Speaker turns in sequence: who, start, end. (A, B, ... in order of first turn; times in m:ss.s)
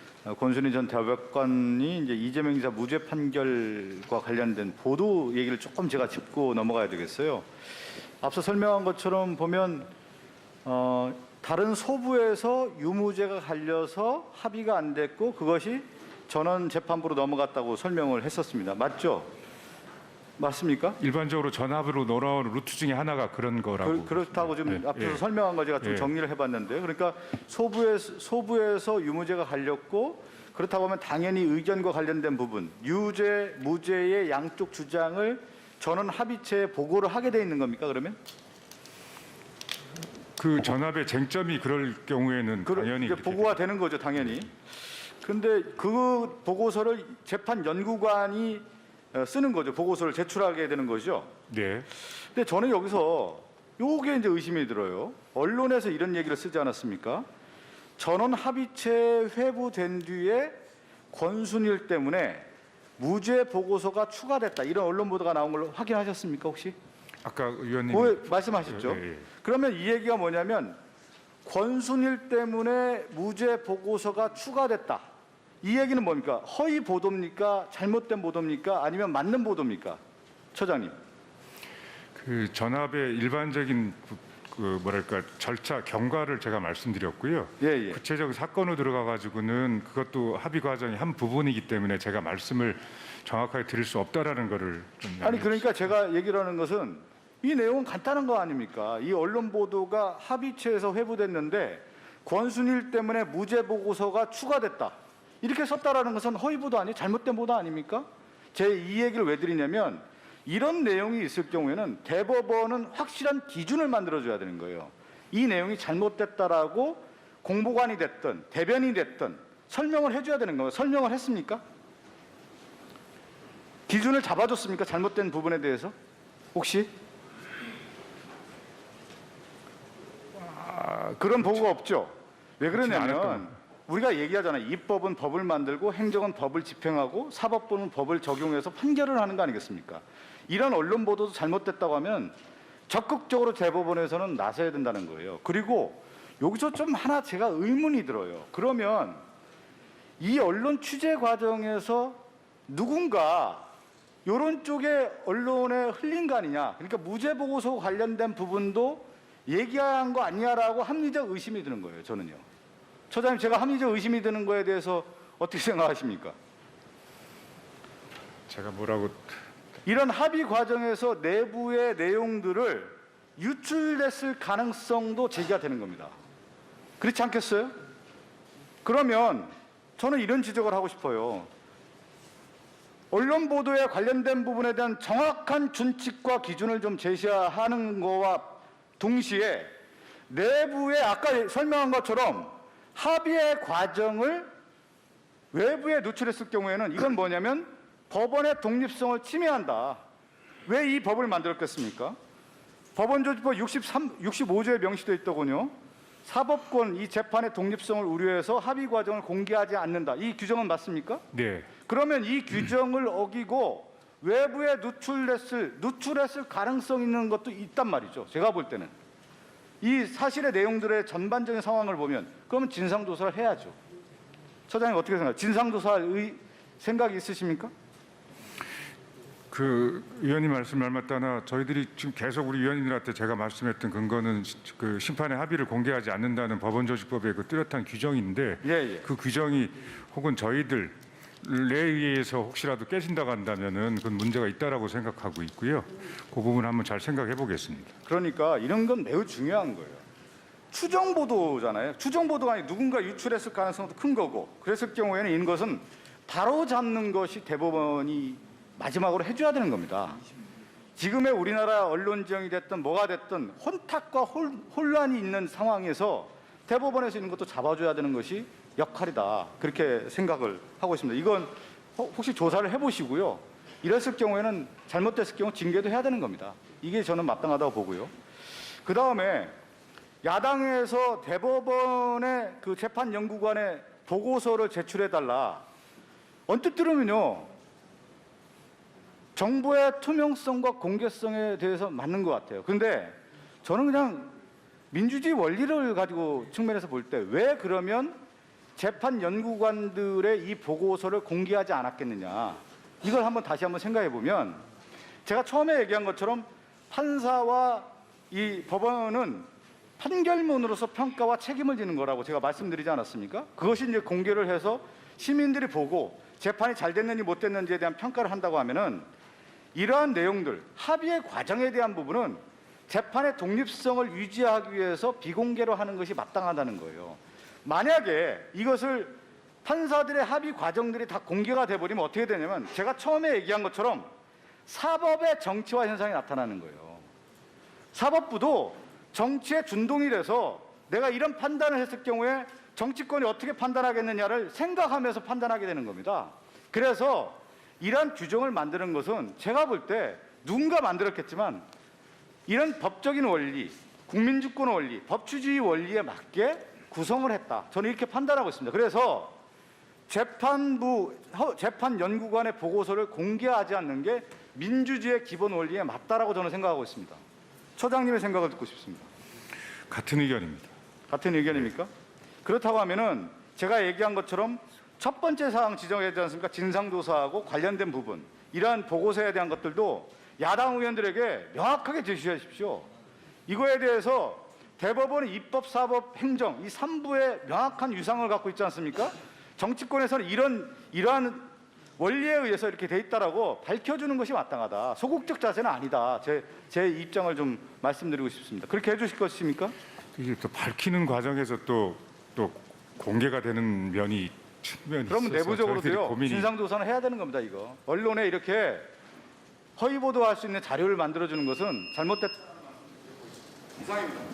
0:00.2-0:07.4 A
0:08.2-0:09.9 A
0:10.6-0:19.3 A
0:20.4-0:21.0 A
0:21.0-0:25.2 B
0:23.8-0:38.2 A
0:25.8-0:26.1 B
0:40.4-0:43.6 B
0:42.6-0:44.5 A
0:45.2-0:51.3 A
0:51.5-0:51.9 B
0:52.0-0:57.2 A
0:58.0-1:00.6 A
1:01.1-1:02.4 A
1:03.0-1:06.7 A
1:07.2-1:09.2 B
1:07.9-1:10.8 A
1:11.4-1:15.0 A
1:15.6-1:20.0 A
1:20.5-1:20.9 A
1:22.1-1:35.8 B
1:27.6-1:28.0 A
1:35.2-2:01.6 A
2:03.9-2:05.9 A
2:06.5-2:06.9 A
2:10.8-2:22.3 A
2:12.7-2:13.5 B
2:22.9-2:29.2 A
2:30.2-2:33.6 A
2:34.2-2:42.4 A
2:43.1-2:46.4 A
2:48.5-2:49.3 B
2:49.8-2:56.1 A
2:57.0-2:57.7 A
2:58.8-3:01.5 A
3:03.1-3:09.7 A
3:10.3-3:14.5 A
3:15.5-3:20.0 A
3:20.6-3:22.2 A
3:22.9-3:25.7 A
3:26.2-3:31.2 A
3:31.3-3:31.7 B
3:31.8-3:38.9 A
3:39.8-3:43.7 A
3:44.7-3:47.7 A
3:49.5-4:07.9 B
3:58.6-3:59.0 A
4:08.0-4:10.0 A
4:10.7-4:20.2 A
4:21.0-4:38.1 A
4:38.8-4:39.5 A
4:40.2-4:45.6 A
4:46.5-4:47.5 A
4:49.4-4:54.3 A
4:54.9-4:58.2 A
4:58.8-5:04.6 A
5:05.2-5:09.4 A
5:10.0-5:19.0 A
5:19.7-5:34.1 A
5:34.6-5:37.0 A
5:37.9-5:51.6 A
5:52.5-5:59.3 A
6:00.1-6:07.2 A
6:07.8-6:09.1 A
6:09.9-6:10.7 B
6:11.1-6:11.9 A
6:12.4-6:22.9 A
6:23.5-6:31.4 A
6:32.0-6:39.7 A
6:40.1-6:46.5 B
6:45.1-6:48.8 A
6:49.8-6:52.4 A